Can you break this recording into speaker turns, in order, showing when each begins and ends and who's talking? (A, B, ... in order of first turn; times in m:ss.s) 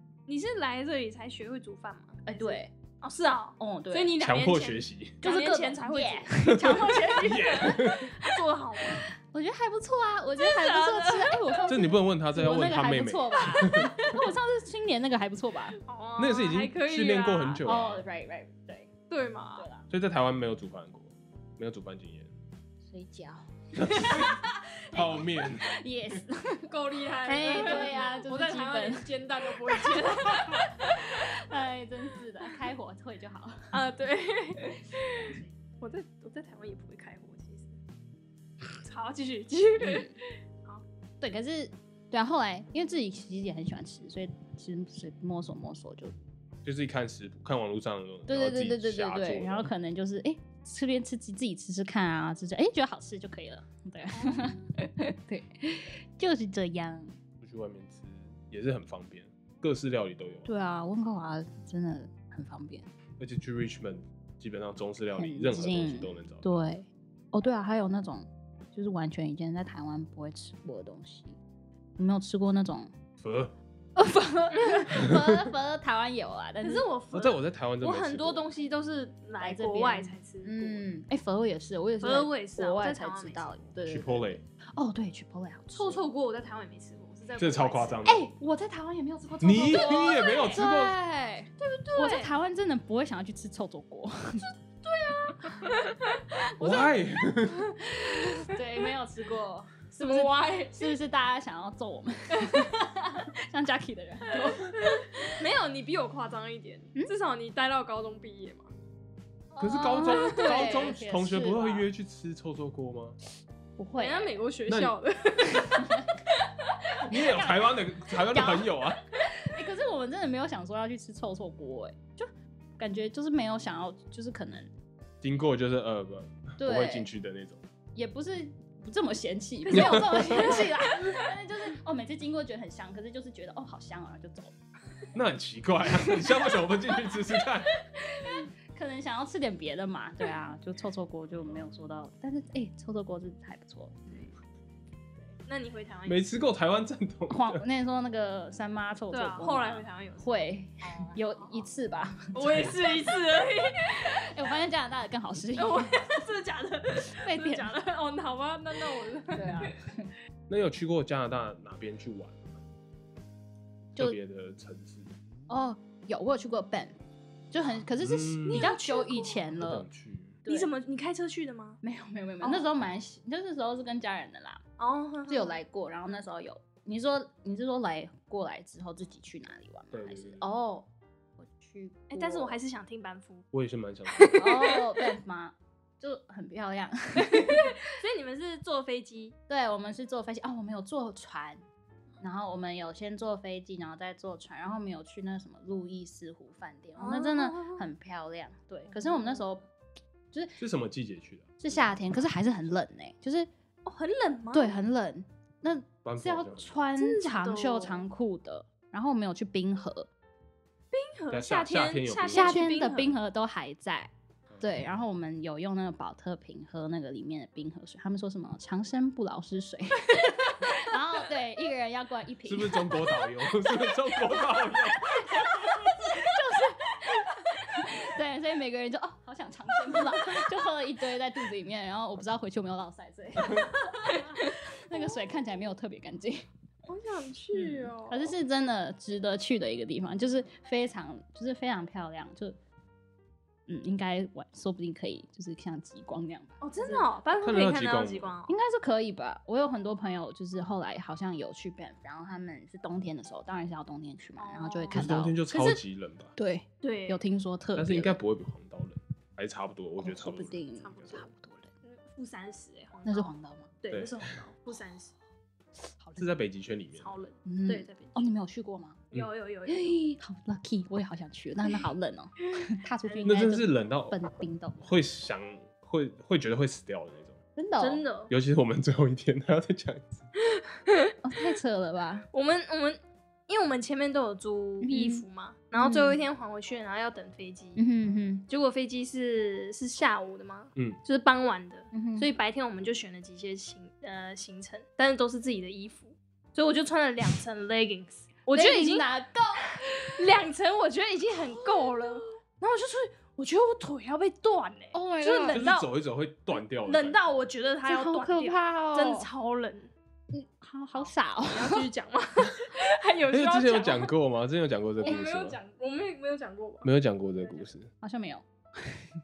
0:00.3-0:09.1 A
0:02.3-0:02.7 B
0:03.6-0:04.2 B
0:04.2-0:05.2 C
0:05.2-0:08.4 B
0:06.5-0:08.1 C
0:09.0-0:15.8 B
0:10.4-0:11.6 A
0:11.7-0:14.2 C
0:15.8-0:17.6 A
0:16.2-0:18.0 C
0:17.6-0:18.9 B
0:19.1-0:19.7 A
0:19.6-0:19.9 B
0:19.9-0:22.3 C
0:22.8-0:26.7 B
0:23.8-0:24.4 C
0:24.9-0:26.2 C
0:26.7-0:31.2 A
0:27.2-0:29.1 B
0:29.7-0:33.8 B
0:33.7-0:37.8 A
0:38.8-0:40.8 A
0:39.8-0:40.2 B
0:41.2-0:46.1 B
0:46.6-0:49.7 C
0:48.3-0:57.2 B
0:54.1-0:54.6 A
0:57.4-1:00.5 C
1:00.5-1:02.9 B
1:03.2-1:06.4 C
1:05.2-1:11.4 B
1:12.0-1:12.9 B
1:13.2-1:13.5 C
1:14.0-1:16.9 B
1:15.0-1:15.4 C
1:16.6-1:20.9 A
1:17.1-1:18.5 C
1:19.4-1:26.1 B
1:22.0-1:23.5 A
1:23.9-1:24.4 C
1:25.8-1:28.0 A
1:27.4-1:28.2 C
1:28.0-1:34.5 B
1:29.4-1:31.0 C
1:29.7-1:30.7 A
1:31.6-1:32.3 A
1:34.4-1:38.8 A
1:36.6-1:37.8 C
1:37.8-1:44.7 B
1:40.0-1:40.9 A
1:42.3-1:42.7 A
1:44.3-1:48.7 A
1:49.5-1:51.9 B
1:49.6-1:53.2 C
1:49.8-1:50.8 A
1:53.8-1:54.3 B
1:54.0-1:57.0 A
1:54.7-1:55.0 C
1:55.5-1:56.1 B
1:57.1-1:59.0 C
1:57.1-1:57.8 B
1:58.3-1:58.7 B
1:59.3-2:04.7 B
2:05.2-2:07.6 C
2:06.6-2:07.1 B
2:08.0-2:14.6 B
2:09.6-2:11.2 A
2:09.7-2:10.7 C
2:15.1-2:17.7 C
2:16.0-2:16.5 B
2:18.0-2:24.1 B
2:25.5-2:26.3 A
2:26.1-2:27.6 C
2:27.3-2:32.8 B
2:29.1-2:30.3 A
2:30.8-2:31.6 A
2:32.3-2:34.2 A
2:34.0-2:36.0 B
2:35.6-2:39.7 A
2:37.2-2:37.7 B
2:39.3-2:40.1 B
2:40.5-2:42.6 C
2:44.0-2:45.1 C
2:45.5-2:47.0 B
2:47.5-2:49.9 B
2:48.0-2:48.7 C
2:48.5-2:49.4 A
2:49.6-2:50.4 C
2:50.5-2:50.7 B
2:50.5-2:51.8 A
2:51.8-2:54.6 B
2:52.4-2:52.7 A
2:54.8-2:55.6 A
2:55.3-3:02.6 B
2:59.9-3:00.5 C
3:02.1-3:03.4 A
3:03.5-3:04.4 C
3:04.1-3:05.0 A
3:04.3-3:07.8 B
3:07.2-3:09.3 A
3:09.5-3:11.6 B
3:12.2-3:19.7 B
3:17.0-3:17.9 A
3:19.0-3:19.4 A
3:20.3-3:20.6 B
3:20.6-3:21.5 C
3:21.6-3:23.5 B
3:23.8-3:24.8 A
3:24.5-3:30.1 B
3:26.0-3:26.8 C
3:27.0-3:28.0 A
3:30.9-3:33.2 A
3:31.3-3:32.6 C
3:32.3-3:43.1 B
3:34.5-3:35.0 C
3:42.5-3:45.4 C
3:43.6-3:56.5 B
3:50.0-3:50.4 A
3:54.2-3:55.1 A
3:56.9-3:58.3 A
3:58.1-4:02.6 B
4:03.7-4:07.1 B
4:06.6-4:08.5 A
4:07.4-4:08.3 C
4:08.5-4:15.4 B
4:14.4-4:15.8 A
4:14.9-4:16.3 C
4:16.4-4:18.2 B
4:16.8-4:17.2 A
4:17.8-4:21.2 C
4:20.0-4:21.7 B
4:21.8-4:23.3 A
4:23.1-4:23.7 B
4:23.8-4:25.1 A
4:23.9-4:24.3 C
4:26.0-4:26.3 B
4:26.2-4:27.2 C
4:27.0-4:28.3 A
4:27.4-4:29.0 B
4:29.1-4:30.0 A
4:29.6-4:34.9 B
4:33.0-4:33.5 A
4:33.2-4:34.2 C
4:34.8-4:37.4 C
4:37.6-4:38.0 B
4:37.8-4:38.3 A
4:38.3-4:40.3 C
4:40.5-4:41.1 A
4:41.2-4:42.2 B
4:42.3-4:47.8 A
4:44.8-4:45.2 B
4:45.8-4:46.2 B
4:47.8-4:48.4 B
4:48.5-4:59.1 A
4:51.9-4:52.3 B
4:58.5-5:00.3 B
4:59.8-5:05.9 A
5:01.5-5:02.2 B
5:04.9-5:05.6 B
5:05.5-5:07.2 C
5:06.8-5:09.9 A
5:07.8-5:09.3 B
5:10.3-5:11.9 B
5:11.0-5:14.1 A
5:13.3-5:15.6 C
5:15.0-5:16.9 A
5:16.8-5:17.9 C
5:17.4-5:17.7 A
5:18.0-5:19.0 B